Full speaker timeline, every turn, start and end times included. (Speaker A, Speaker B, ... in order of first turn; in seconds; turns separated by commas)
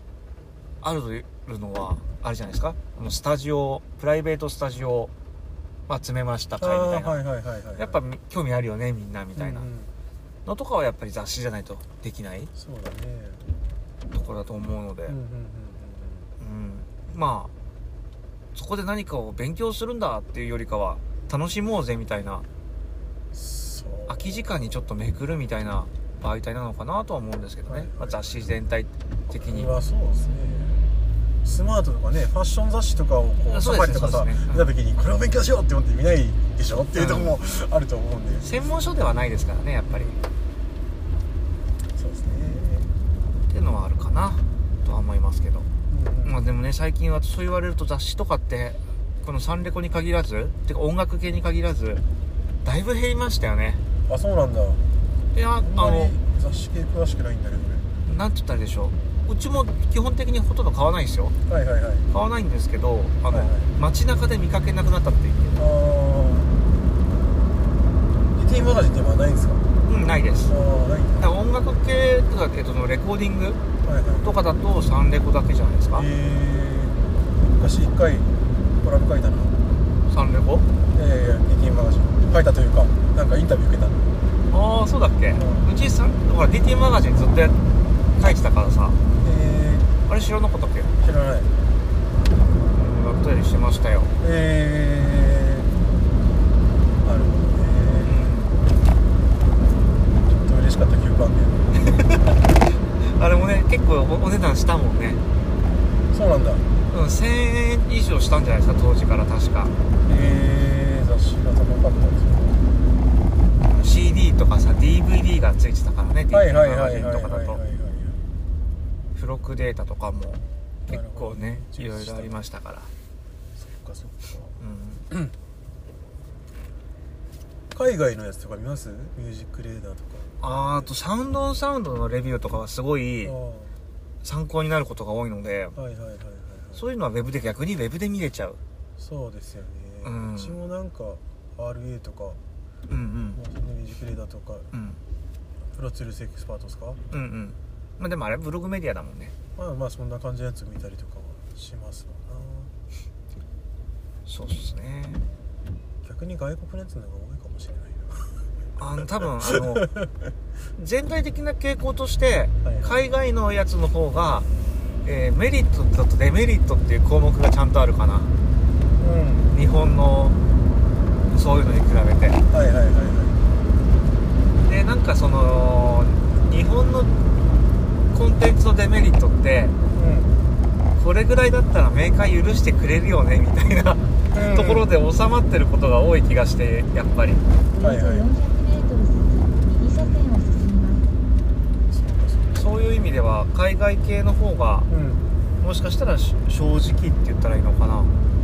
Speaker A: 0.8-5.1, Speaker A: 5.9-7.2, Speaker B: 6.6-8.0, Speaker A: 7.8-9.7, Speaker B: 9.3-9.9, Speaker A: 10.4-12.5, Speaker B: 12.6-13.5, Speaker A: 14.1-15.1, Speaker B: 15.1-16.3, Speaker A: 16.4-17.5, Speaker A: 18.5-22.4, Speaker B: 23.3-24.8, Speaker A: 24.1-29.7, Speaker B: 27.7-28.4, Speaker B: 29.3-30.9, Speaker B: 31.4-38.5, Speaker A: 33.5-34.7, Speaker A: 36.9-37.3, Speaker A: 38.4-40.1, Speaker B: 39.9-40.3, Speaker B: 41.9-42.9, Speaker A: 43.5-45.7, Speaker B: 45.9-46.4, Speaker A: 46.2-52.0, Speaker A: 52.6-53.8, Speaker B: 54.1-54.8, Speaker A: 55.3-56.1, Speaker B: 55.6-57.9, Speaker A: 58.0-61.3, Speaker B: 61.5-62.1, Speaker A: 62.1-65.6, Speaker B: 63.3-63.7, Speaker B: 65.5-66.5, Speaker B: 68.3-69.6, Speaker A: 69.8-70.5, Speaker B: 70.5-71.3, Speaker A: 71.2-73.6, Speaker B: 73.8-74.3, Speaker A: 74.2-76.1, Speaker B: 75.9-79.6, Speaker A: 80.1-80.7, Speaker B: 80.9-84.1, Speaker A: 84.5-87.6, Speaker B: 85.3-85.7, Speaker A: 88.2-89.0, Speaker B: 89.2-89.9, Speaker A: 90.1-90.9, Speaker B: 91.0-91.5, Speaker A: 92.7-94.1, Speaker B: 94.2-95.7, Speaker B: 97.0-98.3, Speaker A: 98.0-98.6, Speaker B: 100.2-101.7, Speaker A: 101.8-102.3, Speaker A: 103.0-105.2, Speaker B: 106.1-106.6, Speaker A: 106.9-110.2, Speaker B: 110.1-112.6, Speaker A: 113.6-117.6, Speaker B: 116.3-118.2, Speaker A: 119.1-122.9, Speaker B: 120.9-122.3, Speaker B: 123.6-124.5, Speaker A: 124.6-125.0, Speaker B: 127.7-130.9, Speaker A: 130.4-133.3, Speaker B: 133.2-133.7, Speaker A: 134.2-135.7, Speaker B: 135.8-136.8, Speaker A: 136.8-138.6, Speaker B: 139.0-142.4, Speaker A: 140.0-140.5, Speaker A: 142.9-143.4, Speaker B: 143.3-144.7, Speaker A: 144.7-145.0, Speaker B: 145.7-147.0, Speaker A: 147.1-149.3, Speaker B: 149.6-152.7, Speaker A: 154.2-155.2, Speaker B: 156.0-158.4, Speaker A: 158.8-159.9, Speaker B: 159.2-160.1, Speaker A: 160.8-164.5, Speaker B: 162.6-163.0, Speaker A: 165.0-168.3, Speaker B: 169.0-169.5, Speaker A: 169.5-170.3, Speaker A: 171.3-172.4, Speaker B: 172.5-173.4, Speaker A: 174.6-177.1, Speaker A: 178.1-179.7, Speaker B: 179.9-180.3, Speaker A: 181.0-187.4, Speaker B: 184.3-184.9, Speaker C: 187.7-191.1, Speaker B: 187.8-188.3, Speaker B: 191.9-192.7, Speaker A: 192.5-194.9, Speaker B: 194.9-195.2, Speaker A: 195.6-198.1